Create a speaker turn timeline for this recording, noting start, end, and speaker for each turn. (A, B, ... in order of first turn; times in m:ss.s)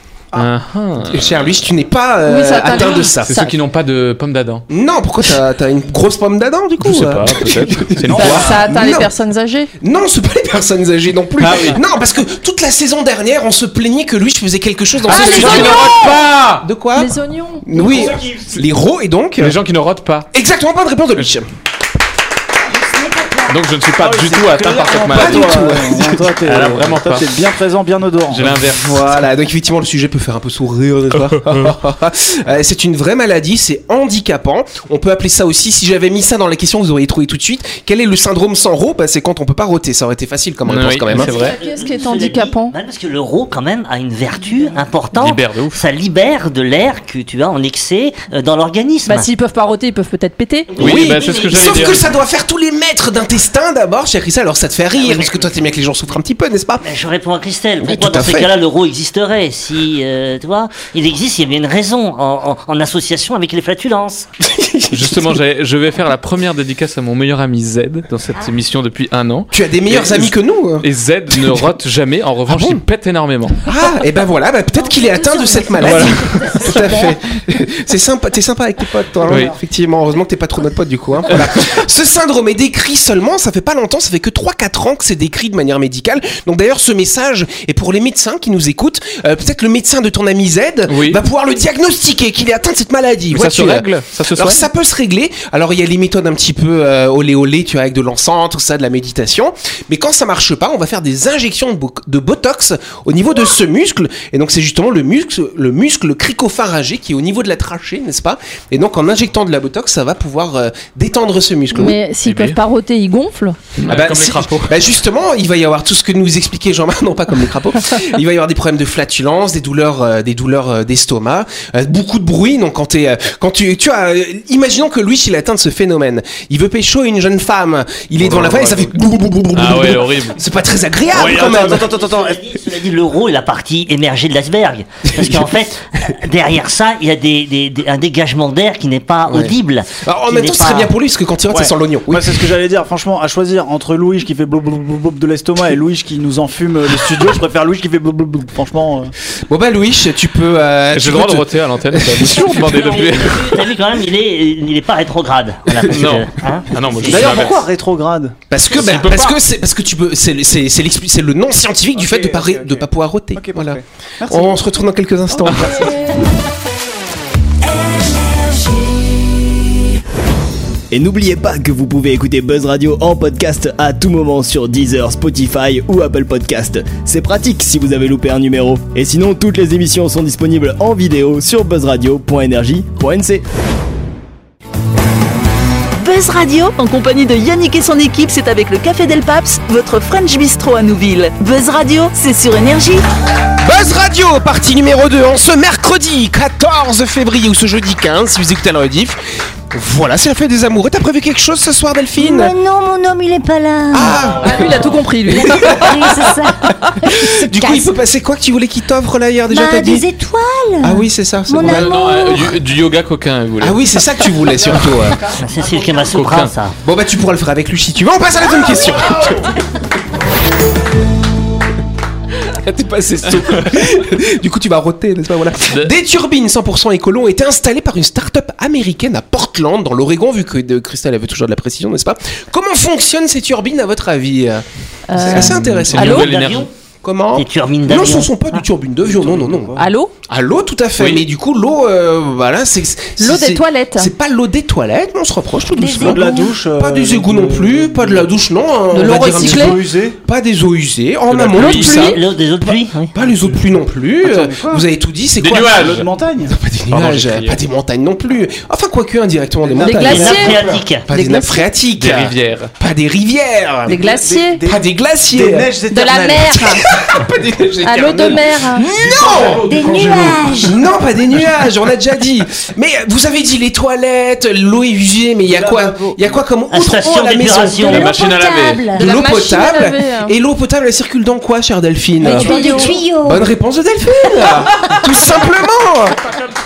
0:00.3-0:01.5 A
0:01.1-0:03.5 B
0:02.3-0:03.5 C
0:03.2-0:04.6 A
0:04.7-0:09.1 B
0:06.8-0:08.5 A
0:08.1-0:08.6 D
0:08.2-0:09.7 C
0:09.8-0:17.1 B
0:11.4-0:11.8 A
0:15.1-0:16.7 A
0:15.1-0:16.0 C
0:17.0-0:18.0 C
0:17.6-0:19.6 B
0:17.8-0:18.4 D
0:19.4-0:20.3 A
0:20.3-0:21.5 B
0:22.8-0:23.6 E
0:23.5-0:27.3 A
0:24.0-0:28.6 D
0:25.1-0:26.2 B
0:28.3-0:29.0 A
0:28.7-0:41.3 B
0:31.2-0:31.8 A
0:40.7-0:41.6 A
0:41.1-0:42.8 C
0:41.2-0:49.3 F
0:45.2-0:45.8 A
0:49.1-0:50.7 C
0:50.7-0:52.0 F
0:50.8-0:52.1 A
0:50.8-0:56.9 B
0:55.0-0:55.6 F
0:56.8-1:04.3 F
0:57.8-0:58.5 B
1:04.4-1:05.4 B
1:04.9-1:13.6 A
1:09.5-1:11.6 B
1:12.5-1:12.8 B
1:13.6-1:52.0 B
1:14.8-1:17.2 E
1:15.8-1:16.2 A
1:19.3-1:19.5 A
1:30.9-1:31.2 A
1:33.3-1:34.7 A
1:51.7-1:53.6 C
1:52.2-1:52.6 A
1:53.8-1:54.8 A
1:53.8-2:12.0 B
2:08.2-2:09.0 A
2:09.5-2:10.4 A
2:11.1-2:12.4 D
2:11.3-2:20.9 F
2:15.2-2:15.5 B
2:19.3-2:22.4 B
2:21.5-2:29.1 D
2:29.5-2:32.6 B
2:30.9-2:33.5 A
2:32.5-2:37.4 F
2:35.9-2:37.6 A
2:37.0-2:38.4 D
2:38.5-2:45.9 B
2:38.7-2:39.4 A
2:41.9-2:44.6 D
2:45.4-2:45.8 D
2:50.9-3:03.4 G
3:06.0-3:13.0 H
3:13.6-3:22.5 B
3:22.2-3:24.2 E
3:23.9-3:26.3 B
3:24.4-3:25.9 C
3:25.3-3:28.0 E
3:27.1-3:30.1 B
3:29.5-3:32.5 E
3:30.8-3:31.9 B
3:31.6-3:33.8 A
3:33.6-3:35.2 B
3:34.6-3:36.0 D
3:35.4-3:36.8 F
3:36.0-3:36.5 A
3:36.8-3:39.6 B
3:42.5-3:54.6 B
3:55.1-3:56.3 C
3:55.2-3:56.3 B
3:55.2-3:56.7 A
3:56.0-3:56.7 F
3:57.0-3:59.8 B
3:57.4-3:58.6 F
3:59.0-3:59.9 D
3:59.8-4:00.1 C
4:00.3-4:15.9 B
4:01.0-4:01.2 A
4:03.2-4:04.1 C
4:05.7-4:06.6 E
4:06.0-4:08.3 D
4:08.9-4:09.8 C
4:09.0-4:10.2 D
4:11.3-4:12.2 A
4:11.6-4:13.1 F
4:13.2-4:14.9 D
4:15.4-4:16.1 A
4:15.7-4:16.5 D
4:16.4-4:24.0 B
4:16.9-4:17.6 A
4:19.6-4:20.5 D
4:19.8-4:21.7 C
4:20.0-4:21.1 F
4:22.0-4:22.7 A
4:23.9-4:24.6 C
4:23.9-4:26.7 D
4:24.7-4:25.7 B
4:25.9-4:26.8 C
4:26.5-4:38.1 B
4:27.8-4:28.9 C
4:29.0-4:30.0 A
4:29.3-4:29.8 D
4:29.7-4:30.8 E
4:35.4-4:36.4 D
4:36.7-4:38.1 F
4:37.8-4:39.1 E
4:37.9-4:38.8 A
4:39.0-4:40.4 C
4:39.0-4:46.2 B
4:42.2-4:43.5 E
4:42.2-4:43.0 C